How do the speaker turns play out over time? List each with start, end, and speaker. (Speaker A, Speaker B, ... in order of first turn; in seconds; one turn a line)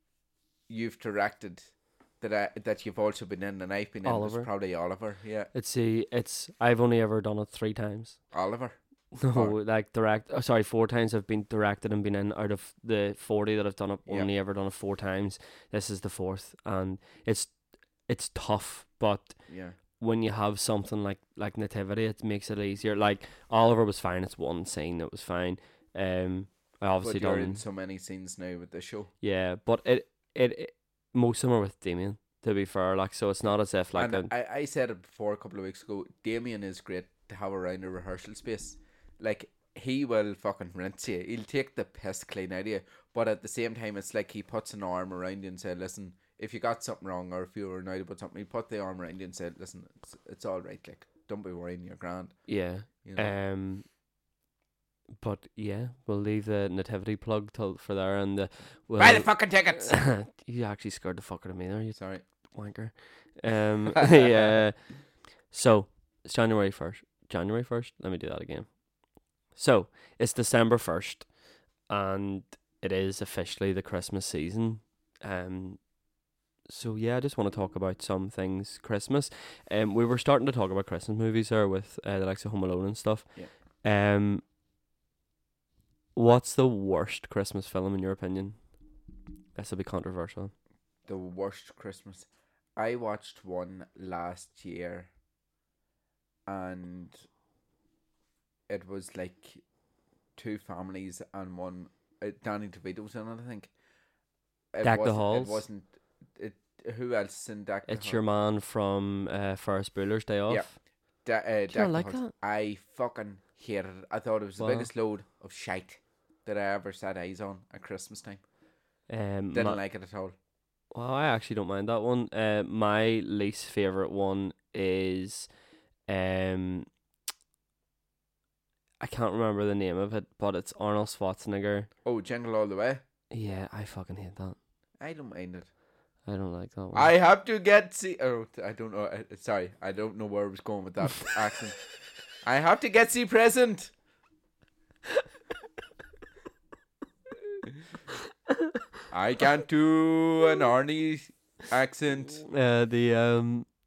Speaker A: 0.7-5.5
Speaker B: 4.0-4.5
Speaker B: 5.5-8.2
Speaker A: 8.3-9.6
Speaker B: 9.2-27.6
Speaker A: 19.5-19.8
Speaker A: 27.0-29.1
Speaker B: 29.2-34.3
Speaker A: 33.4-53.3
Speaker B: 52.5-53.8
Speaker B: 55.2-64.9
Speaker A: 59.0-60.0
Speaker A: 62.0-62.2
Speaker B: 65.5-68.8
Speaker B: 69.5-71.3
Speaker B: 71.9-75.9
Speaker B: 76.7-84.4
Speaker B: 86.1-88.6
Speaker B: 89.5-90.5
Speaker A: 91.0-95.1
Speaker A: 96.5-97.1
Speaker A: 98.7-99.6
Speaker A: 100.3-103.7
Speaker A: 104.7-108.2
Speaker B: 104.8-105.6
Speaker B: 107.9-110.7
Speaker A: 110.5-118.4
Speaker B: 111.7-112.3
Speaker B: 114.6-114.9
Speaker B: 119.1-119.8
Speaker A: 119.5-120.3
Speaker B: 120.9-125.5
Speaker B: 126.1-126.9
Speaker B: 129.0-131.9
Speaker A: 132.0-133.0
Speaker B: 133.3-134.6
Speaker A: 135.0-135.7
Speaker B: 136.2-137.1
Speaker A: 136.9-141.8
Speaker A: 142.4-143.9
Speaker A: 149.1-152.4
Speaker B: 152.4-153.7